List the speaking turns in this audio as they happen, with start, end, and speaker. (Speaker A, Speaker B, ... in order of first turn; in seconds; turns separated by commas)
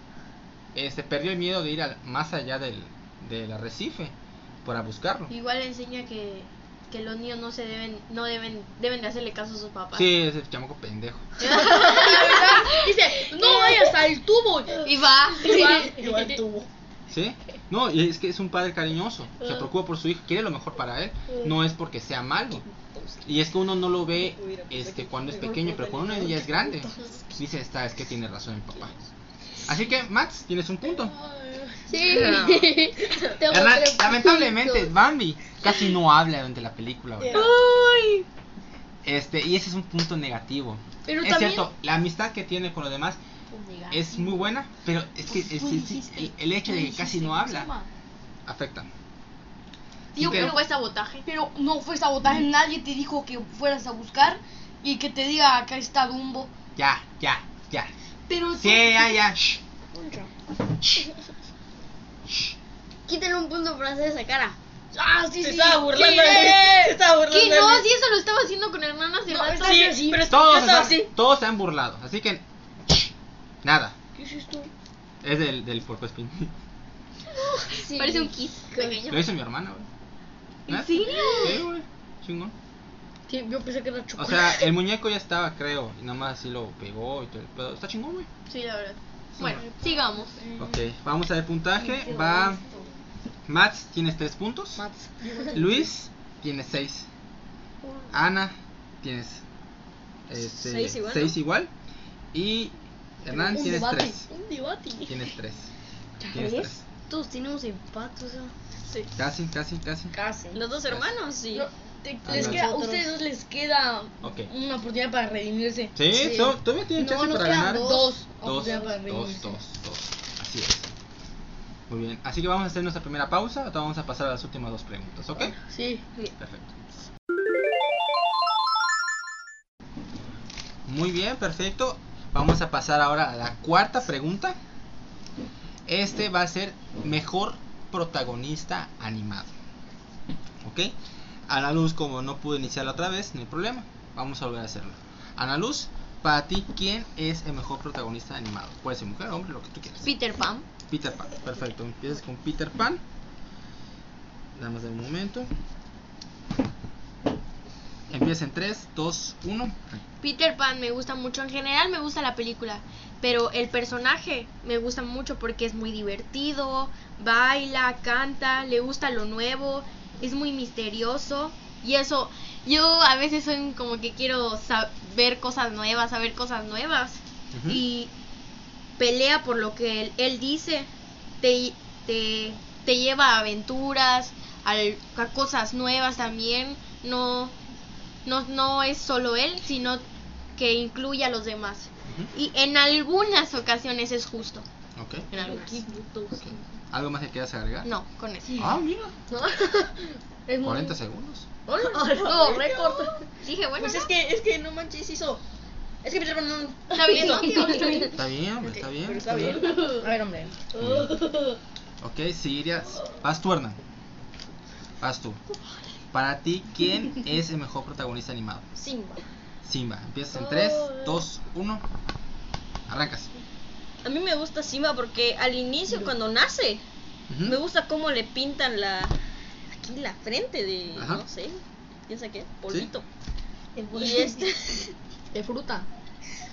Speaker A: 0.8-4.1, Speaker A: 4.6-5.3, Speaker B: 5.3-10.1, Speaker A: 9.9-11.3, Speaker C: 11.4-16.3, Speaker B: 11.4-13.9, Speaker B: 14.8-16.0, Speaker D: 15.4-16.7, Speaker A: 17.1-22.6, Speaker D: 22.6-23.3, Speaker A: 23.2-28.9, Speaker D: 24.2-27.2, Speaker A: 29.7-31.1, Speaker C: 30.9-33.6, Speaker B: 31.9-33.5, Speaker D: 32.1-32.9, Speaker E: 32.2-32.6, Speaker A: 33.5-37.5, Speaker E: 34.1-34.6, Speaker C: 37.2-37.7, Speaker B: 37.3-38.2, Speaker A: 39.0-43.2, Speaker C: 41.1-41.6, Speaker C: 43.6-44.2, Speaker A: 43.9-47.7, Speaker C: 45.3-47.9, Speaker A: 48.5-48.9, Speaker A: 50.2-50.6, Speaker C: 50.2-50.7, Speaker B: 50.2-51.2, Speaker C: 51.2-56.5, Speaker A: 56.8-57.9, Speaker C: 58.3-58.8, Speaker A: 58.5-59.6, Speaker C: 59.9-60.3, Speaker E: 63.1-64.6, Speaker C: 64.9-67.0, Speaker D: 65.4-67.9, Speaker B: 67.3-69.9, Speaker C: 69.3-70.3, Speaker D: 69.6-71.1, Speaker A: 70.3-72.4, Speaker A: 73.6-74.0, Speaker C: 74.2-74.7, Speaker A: 75.2-76.5, Speaker E: 77.8-78.3, Speaker B: 77.9-79.3, Speaker C: 78.8-79.0, Speaker A: 79.1-79.9, Speaker B: 80.7-81.6, Speaker A: 80.7-82.5, Speaker C: 81.0-81.5, Speaker C: 83.3-84.7, Speaker A: 84.2-88.3, Speaker B: 88.5-90.3, Speaker A: 89.4-89.6, Speaker C: 89.5-90.8, Speaker A: 90.6-92.6, Speaker C: 91.8-92.8, Speaker A: 93.5-94.8, Speaker C: 94.8-95.8, Speaker D: 95.3-95.6, Speaker A: 95.5-97.1, Speaker C: 97.8-98.1, Speaker A: 98.1-99.4, Speaker A: 100.3-101.7, Speaker D: 100.4-101.4, Speaker A: 102.3-104.3, Speaker C: 103.3-105.3, Speaker A: 105.1-105.7, Speaker C: 106.2-106.7, Speaker A: 106.3-106.8, Speaker E: 107.1-108.5, Speaker A: 109.2-110.2, Speaker C: 110.1-110.6, Speaker D: 110.5-111.7, Speaker C: 111.5-116.5, Speaker A: 112.2-112.7, Speaker E: 112.3-113.1, Speaker A: 114.2-114.5, Speaker A: 116.0-120.9, Speaker E: 117.0-118.1, Speaker C: 117.4-119.6, Speaker A: 121.9-125.5, Speaker C: 125.6-126.0, Speaker A: 126.4-126.7, Speaker A: 130.9-134.6, Speaker A: 135.9-139.5, Speaker A: 140.6-140.9, Speaker A: 141.5-150.1, Speaker B: 150.0-150.7, Speaker A: 150.9-153.0, Speaker A: 154.6-155.5, Speaker A: 158.1-160.0, Speaker B: 160.2-178.1, Speaker A: 177.5-177.8, Speaker B: 179.0-180.9, Speaker B: 181.4-187.5, Speaker B: 188.2-190.0, Speaker B: 190.6-194.7, Speaker A: 195.0-195.3, Speaker B: 195.3-195.8, Speaker D: 195.3-196.6, Speaker A: 196.4-197.9, Speaker B: 197.8-198.7, Speaker A: 198.6-199.2, Speaker C: 199.3-201.0, Speaker A: 200.6-201.5, Speaker C: 201.7-203.2, Speaker B: 201.7-202.0, Speaker D: 201.9-203.2, Speaker B: 203.4-204.1, Speaker D: 203.8-205.4, Speaker D: 206.0-208.1, Speaker B: 206.9-208.2, Speaker C: 207.1-208.1, Speaker A: 208.2-209.7, Speaker D: 208.7-210.0, Speaker B: 209.7-210.0, Speaker C: 209.9-210.8, Speaker A: 210.8-211.2, Speaker A: 212.0-213.8, Speaker A: 215.0-215.4, Speaker A: 216.1-218.7, Speaker D: 218.8-219.2, Speaker A: 219.7-221.8, Speaker A: 222.9-223.3, Speaker D: 224.0-226.8, Speaker A: 227.3-227.6, Speaker D: 227.4-229.1, Speaker D: 229.7-233.1, Speaker A: 231.0-231.2, Speaker C: 233.8-234.3, Speaker D: 233.9-234.8, Speaker C: 235.3-235.9